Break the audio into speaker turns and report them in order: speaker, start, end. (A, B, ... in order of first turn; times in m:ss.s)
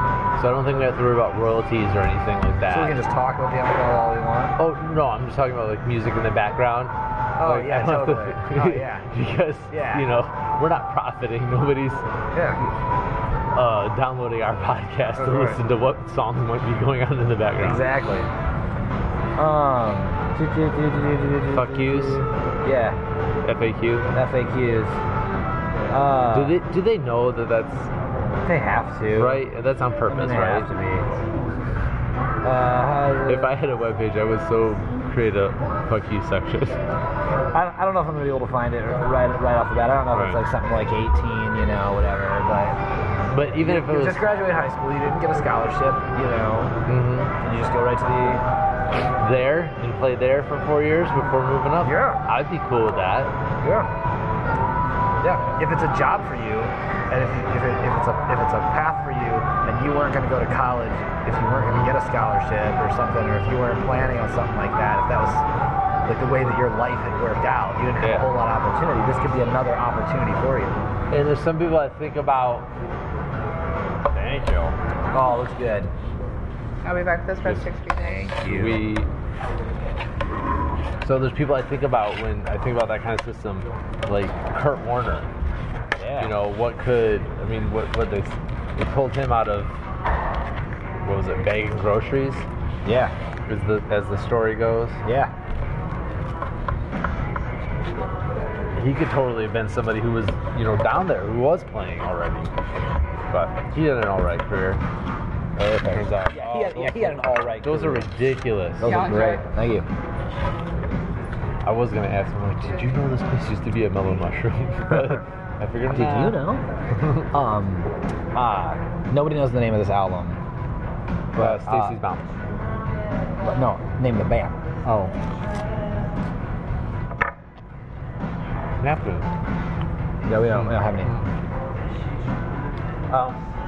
0:00.4-0:03.0 A
0:02.7-0:04.6 B
0:04.6-0:12.0 A
0:07.4-0:09.1 B
0:09.7-0:10.1 B
0:12.3-0:12.6 B
0:13.5-0:17.8 A
0:15.1-0:15.6 B
0:17.6-0:18.3 B
0:19.4-0:23.0 B
0:21.5-0:22.2 A
0:23.4-0:24.1 A
0:24.1-0:25.0 B
0:25.9-0:26.6 B
0:26.3-0:27.9 A
0:28.4-0:29.4 B
0:29.1-0:30.7 A
0:30.1-0:31.1 B
0:32.4-0:33.5 B
0:33.3-0:36.8 A
0:37.5-0:42.8 B
0:40.1-0:40.4 A
0:43.3-0:44.2 A
0:43.6-0:46.7 B
0:46.8-0:47.3 A
0:47.4-0:48.4 B
0:49.2-0:53.3 A
0:51.8-0:52.2 B
0:53.6-0:53.9 B
0:55.2-1:05.4 B
1:01.6-1:01.9 A
1:06.0-1:10.8 B
1:08.0-1:08.3 A
1:11.1-1:12.7 A
1:14.1-1:14.8 A
1:15.1-1:15.9 B
1:16.8-1:18.3 C
1:17.9-1:18.9 B
1:18.4-1:19.1 A
1:21.0-1:25.3 A
1:26.0-1:26.3 B
1:26.2-1:29.8 A
1:31.0-1:32.5 A
1:32.8-1:33.1 B
1:33.5-1:35.0 A
1:35.0-1:35.3 B
1:38.7-1:42.5 A
1:43.3-1:44.8 A
1:45.6-1:48.1 B
1:45.8-1:49.2 A
1:48.8-1:49.9 B
1:48.8-1:49.4 C
1:51.6-1:56.4 A
1:54.9-1:55.2 B
1:55.9-1:56.6 B
1:56.9-1:57.3 A
1:57.3-2:00.4 B
2:01.3-2:02.0 B
2:01.4-2:02.3 A
2:03.4-2:05.0 B
2:08.8-2:09.3 A
2:10.2-2:11.2 B
2:10.5-2:11.3 A
2:13.1-2:13.4 A